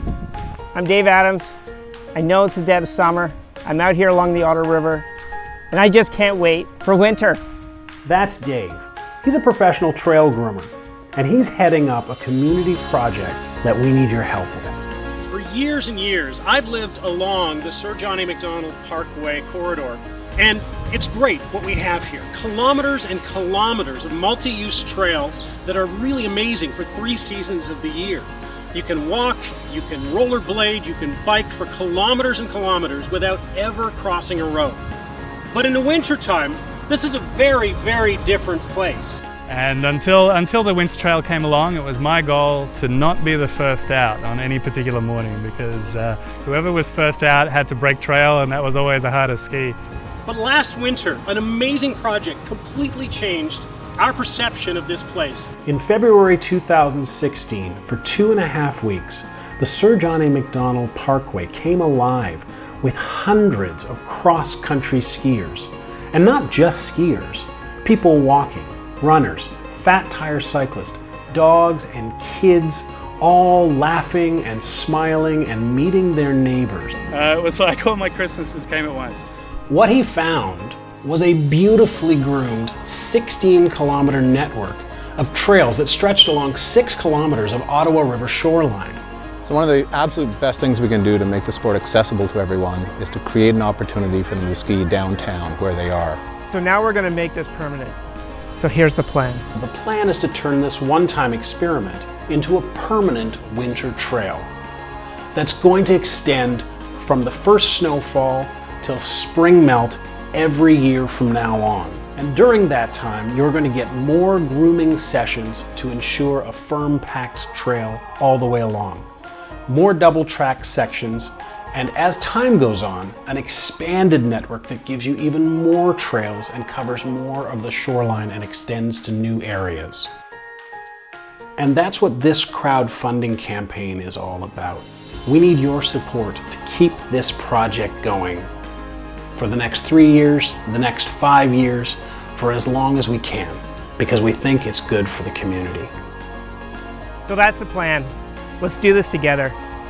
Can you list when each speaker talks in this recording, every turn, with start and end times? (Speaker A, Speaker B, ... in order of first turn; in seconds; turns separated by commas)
Speaker A: 0.7-1.6, Speaker A: 2.1-5.0, Speaker A: 5.7-7.4, Speaker B: 8.0-14.8, Speaker C: 15.2-34.8, Speaker B: 22.6-23.1, Speaker B: 23.9-24.3, Speaker B: 29.2-29.6, Speaker B: 31.7-33.8, Speaker C: 35.5-39.2, Speaker B: 36.6-37.3, Speaker D: 39.5-49.8, Speaker C: 50.3-55.4, Speaker B: 51.0-51.3, Speaker B: 55.3-77.0, Speaker D: 77.1-79.2, Speaker B: 79.7-89.0, Speaker E: 89.4-96.2, Speaker A: 96.5-98.0, Speaker A: 98.5-99.4, Speaker B: 99.5-104.5, Speaker B: 105.3-119.1, Speaker B: 119.7-130.1, Speaker B: 131.6-138.5, Speaker B: 139.3-145.9, Speaker A: 147.2-149.6